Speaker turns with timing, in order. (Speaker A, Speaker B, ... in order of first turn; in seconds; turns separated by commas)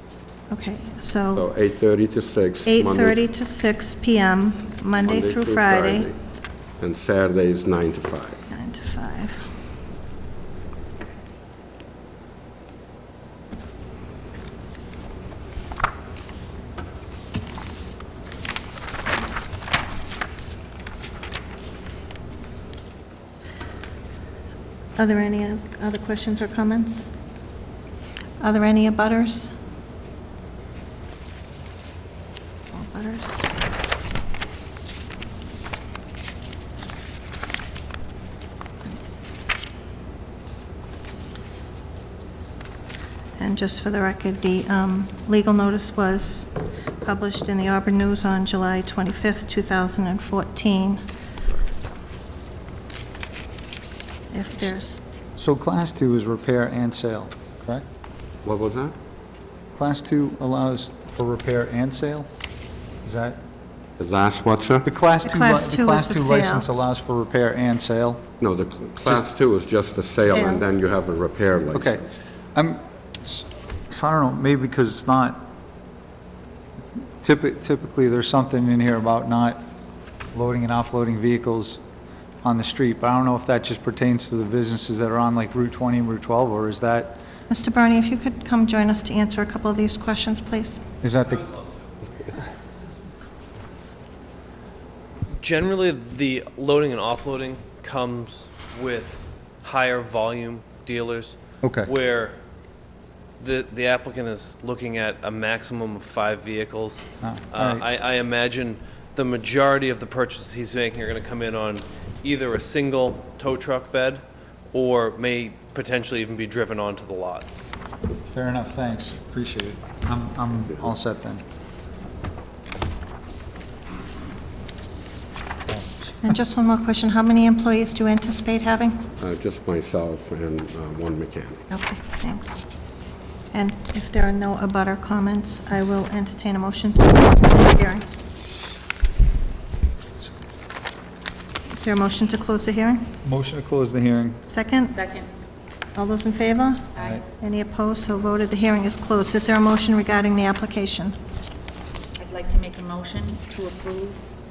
Speaker A: 0.5-1.5, Speaker B: 1.3-3.2, Speaker A: 2.6-6.1, Speaker B: 5.0-6.2, Speaker B: 6.8-8.4, Speaker A: 8.5-9.4, Speaker A: 24.9-27.1, Speaker A: 28.4-29.6, Speaker A: 32.7-33.5, Speaker A: 43.4-51.0, Speaker A: 54.3-55.0, Speaker C: 55.4-57.9, Speaker B: 58.4-58.9, Speaker C: 59.8-62.3, Speaker C: 63.0-63.4, Speaker B: 64.0-64.8, Speaker C: 64.8-68.3, Speaker A: 65.2-66.7, Speaker B: 68.4-72.1, Speaker A: 70.3-70.8, Speaker C: 71.7-75.5, Speaker C: 77.2-79.7, Speaker C: 80.3-81.8, Speaker C: 82.4-87.2, Speaker A: 87.5-90.8, Speaker C: 91.0-91.5, Speaker D: 95.4-102.4, Speaker C: 101.6-101.9, Speaker D: 103.4-117.5, Speaker C: 107.2-107.8, Speaker C: 118.2-121.4, Speaker C: 125.7-126.2, Speaker A: 126.2-129.1, Speaker B: 129.2-131.7, Speaker A: 131.7-132.6, Speaker A: 133.5-138.0, Speaker A: 141.7-143.1, Speaker C: 143.2-144.4, Speaker A: 144.5-145.0, Speaker E: 144.9-145.3, Speaker A: 145.9-151.1, Speaker C: 147.0-147.2, Speaker E: 152.2-154.3